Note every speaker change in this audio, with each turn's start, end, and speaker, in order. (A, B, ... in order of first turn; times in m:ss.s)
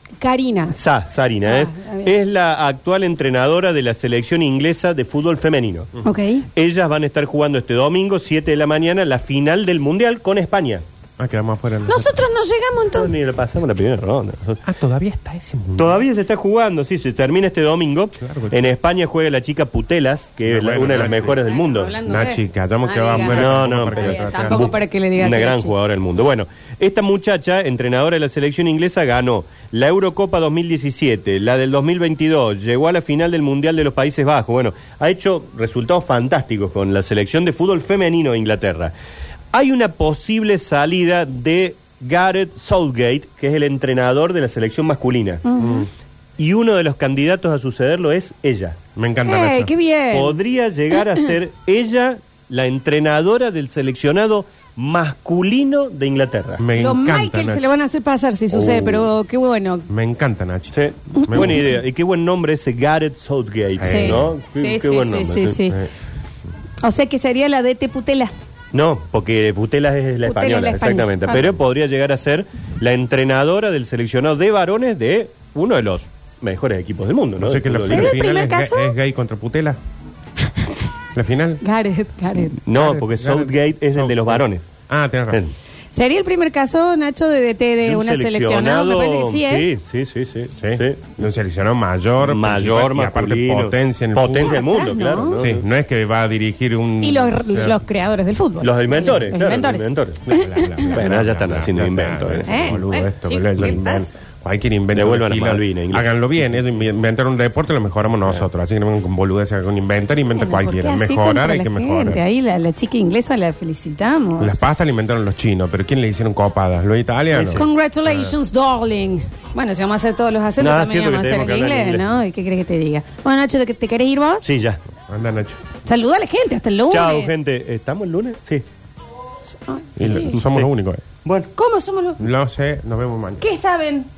0:00.2-0:00.8 A
0:00.8-0:05.9 B
0:01.4-0:02.1 A
0:06.0-0:06.5 A
0:06.6-0:10.8 B
0:11.2-0:12.2 C
0:11.9-0:13.1 A
0:12.9-0:14.6 B
0:14.6-0:16.0 C
0:15.8-0:22.0 B
0:18.2-0:18.6 C
0:20.5-0:21.4 C
0:20.9-0:25.7 A
0:22.0-0:24.7 C
0:23.2-0:38.9 B
0:39.5-0:45.4 B
0:45.5-0:45.9 A
0:45.6-0:45.9 C
0:46.4-0:48.8 B
0:49.0-0:49.7 C
0:49.2-0:50.4 A
0:50.1-0:56.6 B
0:56.6-0:57.7 C
0:56.8-0:59.9 A
0:58.5-0:59.1 B
0:59.9-1:00.7 C
1:00.7-1:05.6 B
1:01.1-1:01.5 A
1:01.3-1:01.7 C
1:03.8-1:04.3 C
1:03.8-1:05.8 A
1:06.8-1:08.3 A
1:08.7-1:18.2 B
1:10.2-1:11.5 A
1:17.4-1:19.8 C
1:17.9-1:18.9 A
1:21.1-1:21.6 C
1:21.6-1:22.6 A
1:22.6-1:24.6 B
1:22.7-1:25.4 C
1:25.9-1:29.7 A
1:27.8-1:31.1 B
1:30.6-1:34.6 C
1:32.2-1:35.6 B
1:34.3-1:35.4 A
1:35.4-1:37.8 C
1:37.0-1:41.0 A
1:38.6-1:40.2 B
1:40.2-1:52.2 C
1:40.9-1:42.8 B
1:42.4-1:44.1 A
1:44.9-1:46.1 B
1:50.4-1:54.6 A
1:54.4-1:58.4 C
1:57.3-1:57.6 B
1:57.4-2:04.4 A
2:00.6-2:02.0 B
2:04.4-2:04.8 B
2:05.1-2:05.6 C
2:05.8-2:07.3 A
2:06.9-2:08.6 B
2:09.7-2:10.4 A
2:10.0-2:11.0 C
2:10.4-2:10.7 B
2:11.2-2:11.5 B
2:11.6-2:12.2 A
2:12.2-2:13.4 C
2:13.4-2:14.1 A